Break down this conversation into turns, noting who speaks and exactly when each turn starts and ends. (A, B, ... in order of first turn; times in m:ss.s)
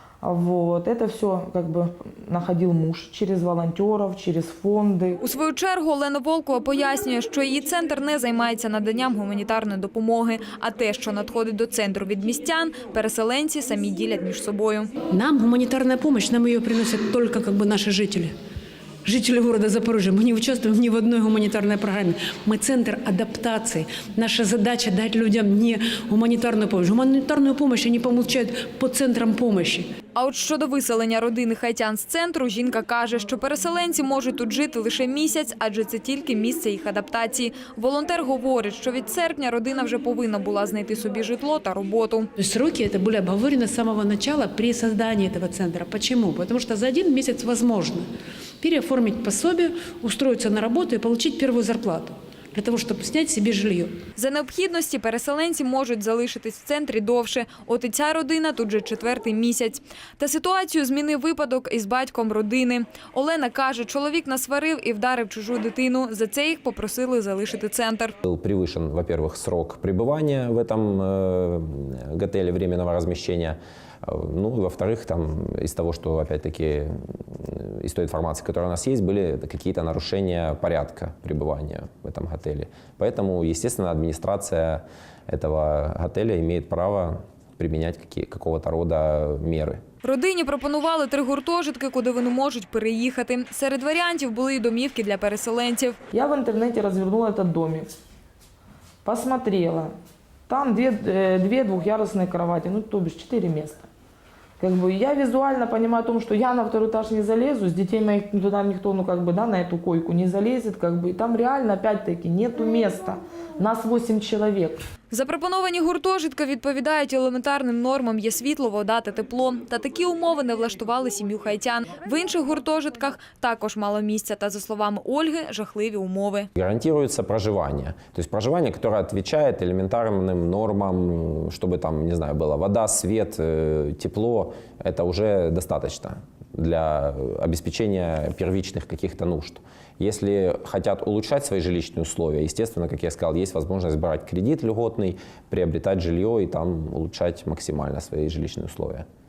0:00.2-0:05.2 A
0:05.2-0:14.9 B
0:15.1-0:18.4 C
0:19.0-0:29.9 C
0:30.1-0:42.3 B
0:42.4-0:48.1 C
0:48.6-0:54.0 C
0:54.2-1:08.2 B
1:08.2-1:29.8 D
1:30.0-1:36.0 B
1:36.1-1:37.9 A
1:39.0-1:39.9 A
1:40.5-1:43.9 A
1:44.6-1:54.8 A
1:55.1-2:06.5 B
2:06.6-2:29.1 D